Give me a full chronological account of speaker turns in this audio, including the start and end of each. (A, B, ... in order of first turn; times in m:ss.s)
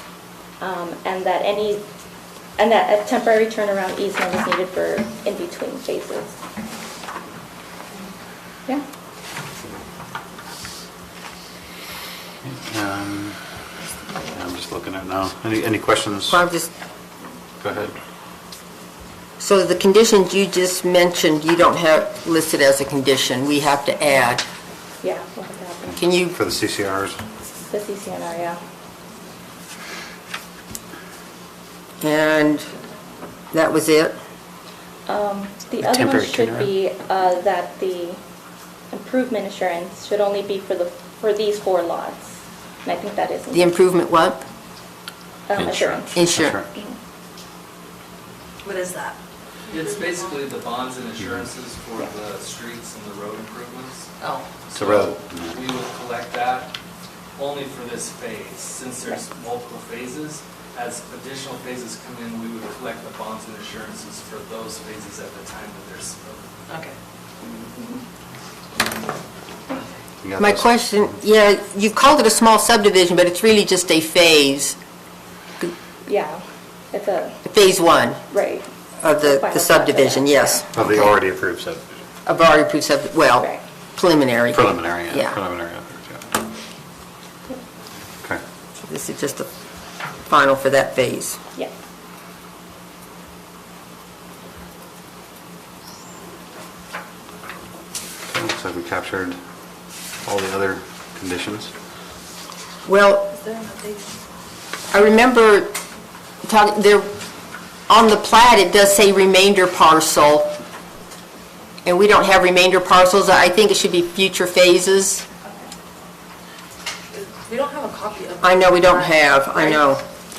0:00.6-0:01.8 A
0:02.6-0:06.4 A
0:12.4-0:13.4 B
0:14.3-0:16.4 B
0:16.3-0:16.7 C
0:17.6-0:17.9 B
0:19.4-0:24.5 C
0:25.0-0:26.0 A
0:26.0-0:26.3 C
0:26.3-0:27.2 B
0:27.7-0:28.6 A
0:32.0-0:32.7 C
0:33.5-0:34.2 C
0:35.1-0:38.2 A
0:35.8-0:36.7 B
0:38.9-0:43.8 A
0:43.5-0:44.4 C
0:45.5-0:46.2 A
0:45.6-0:46.7 B
0:46.1-0:46.6 C
0:48.6-0:49.2 D
0:49.7-0:54.1 E
0:54.2-0:54.4 D
0:54.7-0:56.7 E
0:54.7-0:55.6 B
0:57.4-1:06.5 E
1:06.7-1:06.9 D
1:07.4-1:08.0 A
1:10.2-1:10.7 B
1:10.4-1:14.8 C
1:16.0-1:17.4 A
1:17.4-1:18.2 C
1:18.3-1:20.6 A
1:19.0-1:21.1 C
1:20.7-1:21.8 B
1:22.2-1:25.4 C
1:24.5-1:26.2 B
1:28.8-1:29.5 C
1:30.3-1:31.4 C
1:38.3-1:39.4 B
1:40.2-1:41.7 B
1:42.8-1:43.3 C
1:43.3-1:44.1 D
1:44.9-1:45.8 C
1:46.4-1:47.1 C
1:47.9-1:50.5 C
1:51.8-1:55.2 C
1:57.1-1:59.8 D
1:58.4-2:00.0 C